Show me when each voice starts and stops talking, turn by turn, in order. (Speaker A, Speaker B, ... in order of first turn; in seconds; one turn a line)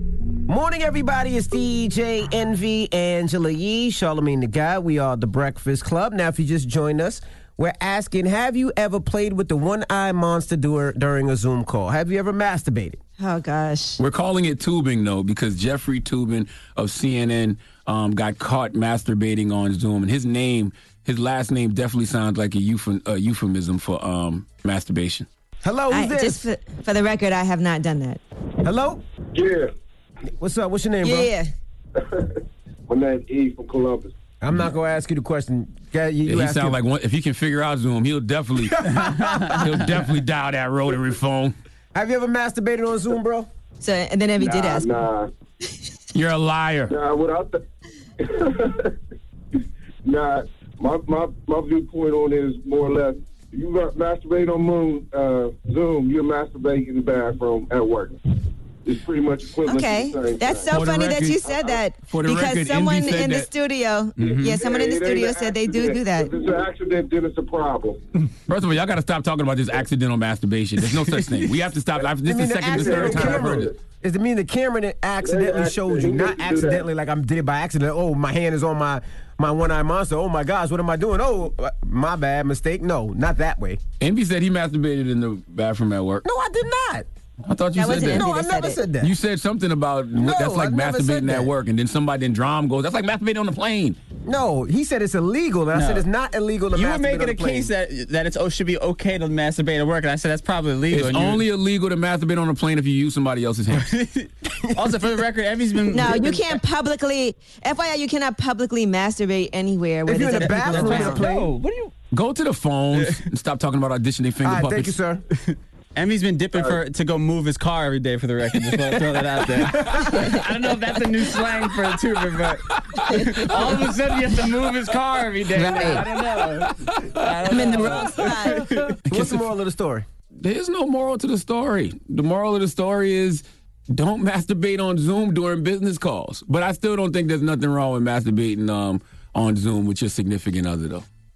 Speaker A: 0.5-13.0
Speaker B: 13.2-14.0
Speaker C: 14.0-25.3
Speaker A: 25.6-26.4
Speaker B: 25.9-28.2
Speaker A: 28.6-29.0
Speaker D: 29.3-29.7
Speaker A: 30.4-31.3
Speaker B: 31.0-31.5
Speaker D: 31.9-34.1
Speaker A: 34.4-36.8
Speaker C: 36.2-41.5
Speaker A: 38.9-39.3
Speaker A: 41.9-43.5
Speaker B: 43.8-44.9
Speaker D: 44.4-45.3
Speaker C: 46.1-46.9
Speaker D: 46.9-47.6
Speaker D: 48.2-48.9
Speaker D: 50.0-58.2
Speaker D: 58.8-60.7
Speaker B: 59.6-66.3
Speaker C: 60.7-63.5
Speaker E: 64.2-64.5
Speaker D: 64.2-68.0
Speaker C: 68.5-73.7
Speaker A: 72.2-83.8
Speaker D: 72.8-73.7
Speaker D: 75.2-76.8
Speaker C: 84.0-86.2
Speaker A: 86.2-87.1
Speaker C: 87.4-88.3
Speaker B: 87.8-88.8
Speaker A: 87.8-89.1
Speaker C: 89.0-94.0
Speaker A: 90.1-91.5
Speaker A: 94.2-97.7
Speaker E: 95.7-96.0
Speaker E: 96.7-101.4
Speaker C: 100.9-103.9
Speaker E: 103.7-106.6
Speaker A: 104.7-105.0
Speaker B: 105.9-111.3
Speaker A: 110.1-111.5
Speaker E: 110.3-111.9
Speaker C: 112.1-115.0
Speaker A: 114.4-115.2
Speaker E: 116.0-126.7
Speaker A: 119.7-120.0
Speaker C: 123.5-123.9
Speaker B: 125.6-126.0
Speaker C: 126.0-128.5
Speaker E: 127.2-128.9
Speaker B: 127.5-128.7
Speaker A: 129.1-130.1
Speaker C: 129.1-129.4
Speaker C: 130.4-141.0